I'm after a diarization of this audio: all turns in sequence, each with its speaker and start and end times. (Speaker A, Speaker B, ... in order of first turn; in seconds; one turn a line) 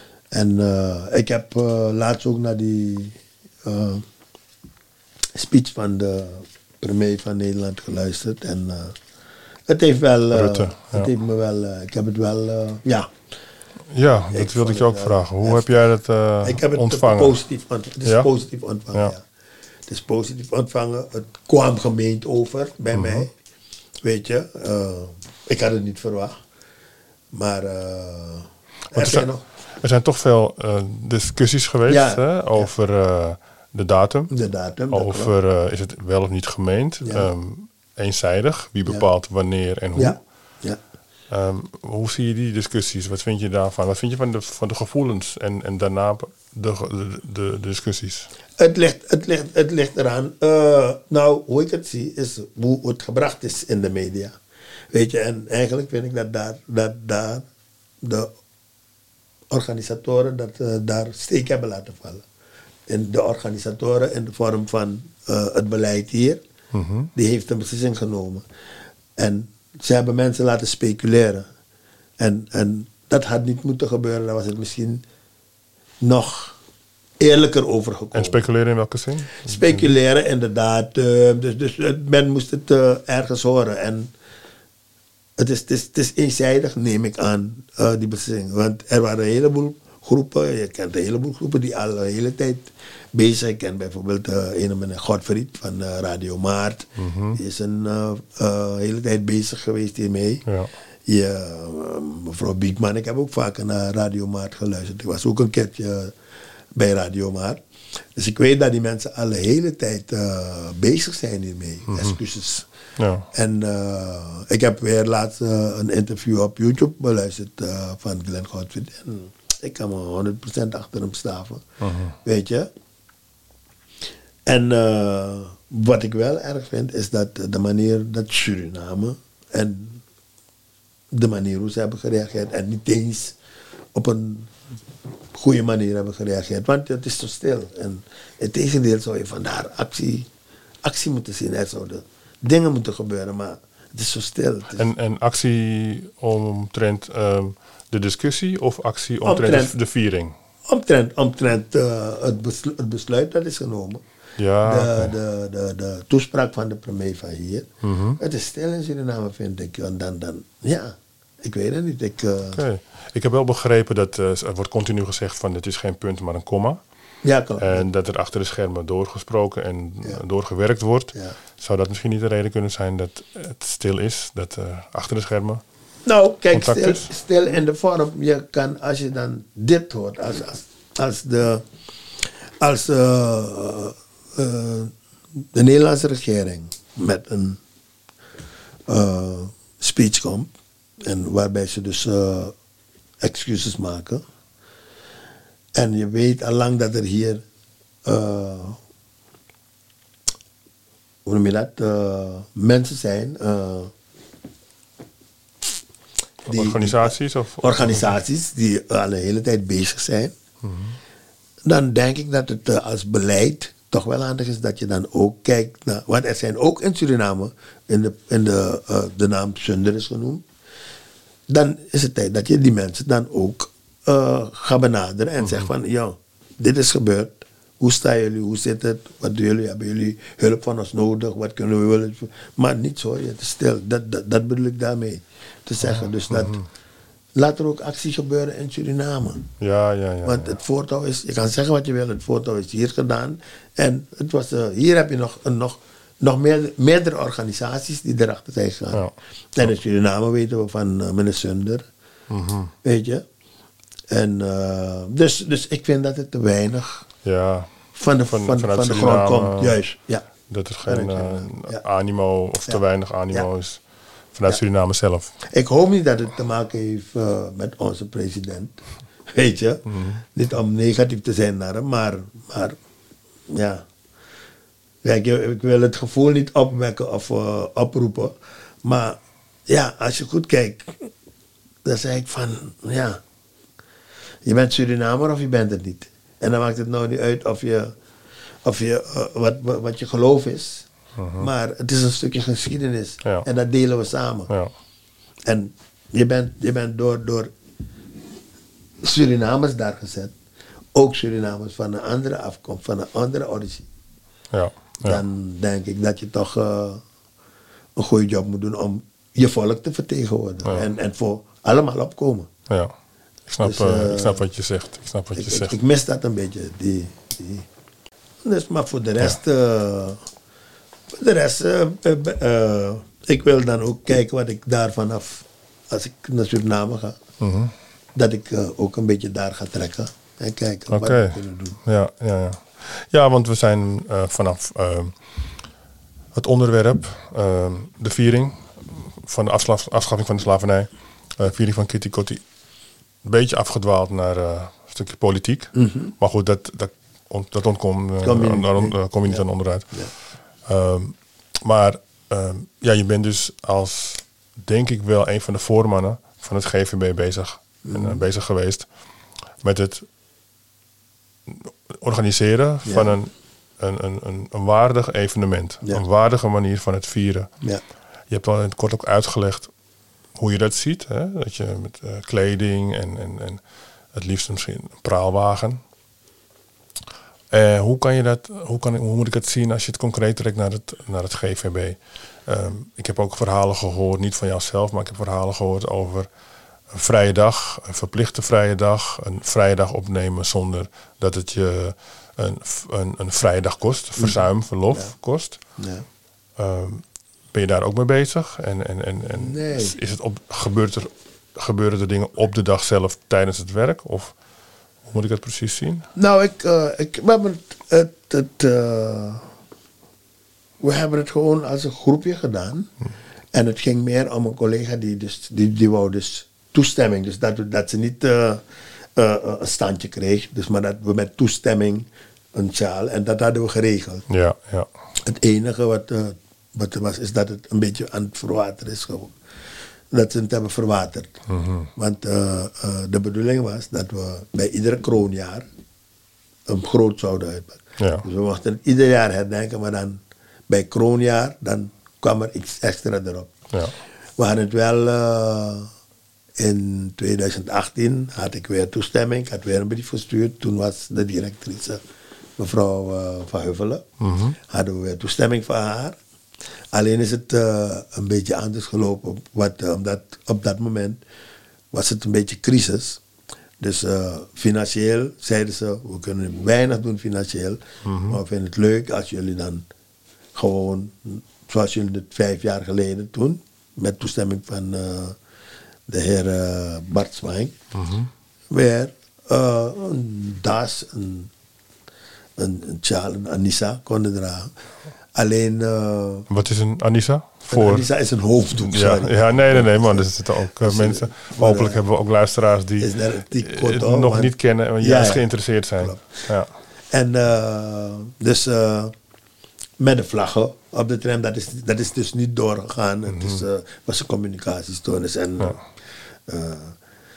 Speaker A: 0.3-4.0
Speaker A: 5.3-8.9
Speaker A: 9.7-13.1
Speaker B: 10.3-11.1
Speaker B: 13.9-17.4
Speaker A: 14.3-15.8
Speaker A: 16.4-19.2
Speaker A: 19.9-23.3
Speaker B: 22.9-23.3
Speaker A: 24.0-26.4
Speaker A: 27.3-29.4
Speaker B: 28.9-34.3
Speaker A: 31.9-32.7
Speaker A: 34.3-35.3
Speaker B: 34.9-40.2
Speaker A: 37.0-37.3
Speaker A: 40.0-40.8
Speaker B: 41.3-48.3
Speaker A: 48.6-54.3
Speaker A: 54.9-57.4
Speaker A: 58.0-58.3
Speaker A: 59.5-62.2
Speaker A: 62.9-66.4
Speaker B: 66.7-67.1
Speaker A: 67.1-68.4
Speaker A: 69.2-71.5
Speaker A: 72.2-75.0
Speaker A: 76.0-76.6
Speaker A: 77.2-78.4
Speaker B: 78.1-79.9
Speaker A: 79.4-84.1
Speaker A: 85.4-100.4
Speaker B: 97.0-97.4
Speaker B: 100.5-100.7
Speaker A: 101.1-106.1
Speaker A: 106.7-107.6
Speaker A: 108.1-112.7
Speaker B: 111.9-112.2
Speaker B: 113.0-113.3
Speaker A: 113.3-121.6
Speaker B: 121.8-122.2
Speaker A: 122.2-122.7
Speaker A: 124.5-130.0
Speaker A: 131.1-133.4
Speaker A: 133.9-134.5
Speaker A: 135.3-140.3
Speaker A: 140.8-144.9
Speaker B: 144.8-150.3
Speaker A: 149.2-149.7
Speaker A: 150.7-154.0
Speaker B: 154.4-155.1
Speaker A: 154.6-162.6
Speaker B: 157.8-158.2
Speaker B: 162.5-166.8
Speaker A: 167.2-167.8
Speaker B: 167.6-175.6
Speaker A: 176.0-181.6
Speaker B: 176.5-177.1
Speaker A: 182.6-187.6
Speaker A: 188.9-190.5
Speaker A: 191.0-192.5
Speaker A: 193.2-194.2
Speaker A: 195.7-197.4
Speaker A: 198.0-198.8
Speaker A: 201.2-203.9
Speaker B: 206.4-208.2
Speaker A: 206.4-210.3
Speaker B: 210.6-211.0
Speaker A: 211.7-220.4
Speaker A: 221.5-236.6
Speaker B: 225.4-225.7
Speaker B: 235.8-236.7
Speaker A: 237.3-239.5
Speaker B: 239.6-240.6
Speaker A: 240.2-249.0
Speaker B: 248.9-249.7
Speaker A: 249.5-251.8
Speaker B: 252.3-252.7
Speaker A: 252.8-253.2
Speaker A: 254.1-257.1
Speaker B: 257.2-259.8
Speaker A: 257.9-260.2
Speaker B: 260.5-265.3
Speaker A: 260.8-261.8
Speaker A: 262.6-263.5
Speaker A: 265.5-272.8
Speaker B: 269.9-270.2
Speaker A: 273.5-273.8
Speaker A: 275.0-281.1
Speaker A: 281.8-283.2
Speaker A: 284.4-287.9
Speaker A: 288.6-294.5
Speaker B: 291.1-291.5
Speaker A: 295.5-297.5
Speaker A: 299.0-300.3
Speaker A: 300.9-303.9
Speaker B: 304.5-305.2
Speaker A: 305.0-307.0
Speaker A: 307.9-312.5
Speaker B: 312.7-312.9
Speaker B: 313.5-315.7
Speaker A: 313.6-314.4
Speaker A: 315.3-317.7
Speaker A: 318.4-320.2
Speaker A: 321.1-327.2
Speaker B: 327.4-327.7
Speaker A: 328.1-331.8
Speaker B: 330.9-335.3
Speaker B: 336.3-342.4
Speaker B: 343.2-350.1
Speaker A: 345.7-346.1
Speaker A: 348.2-350.1
Speaker B: 350.6-358.9
Speaker A: 357.8-358.2
Speaker B: 359.6-360.1
Speaker B: 361.5-367.5
Speaker A: 362.8-363.1
Speaker B: 368.3-369.7
Speaker B: 370.3-373.6
Speaker B: 374.1-375.8
Speaker B: 377.5-386.3
Speaker B: 386.9-395.6
Speaker A: 394.2-395.1
Speaker A: 395.8-396.0
Speaker B: 396.6-404.4
Speaker A: 399.3-400.0
Speaker B: 405.0-406.1
Speaker A: 406.1-409.5
Speaker A: 410.8-412.9
Speaker A: 413.5-418.6
Speaker A: 419.1-424.2
Speaker B: 424.3-424.9
Speaker A: 425.2-429.3
Speaker A: 430.1-431.3
Speaker B: 431.5-431.9
Speaker A: 431.9-435.6
Speaker A: 436.7-443.5
Speaker B: 438.0-438.2
Speaker A: 444.4-445.9
Speaker A: 446.6-452.0
Speaker A: 452.6-454.0
Speaker B: 454.2-454.6
Speaker A: 454.6-456.2
Speaker A: 456.9-461.2
Speaker A: 461.9-463.2
Speaker A: 463.8-469.9
Speaker B: 468.0-468.4
Speaker A: 470.6-475.4
Speaker A: 476.1-477.7
Speaker B: 477.9-478.3
Speaker A: 478.7-481.5
Speaker A: 482.6-484.7
Speaker A: 485.3-486.5
Speaker B: 486.5-488.1
Speaker A: 487.7-492.0
Speaker B: 488.8-496.7
Speaker A: 493.0-495.4
Speaker A: 496.0-496.5
Speaker A: 497.1-499.1
Speaker A: 500.0-507.0
Speaker B: 503.3-503.6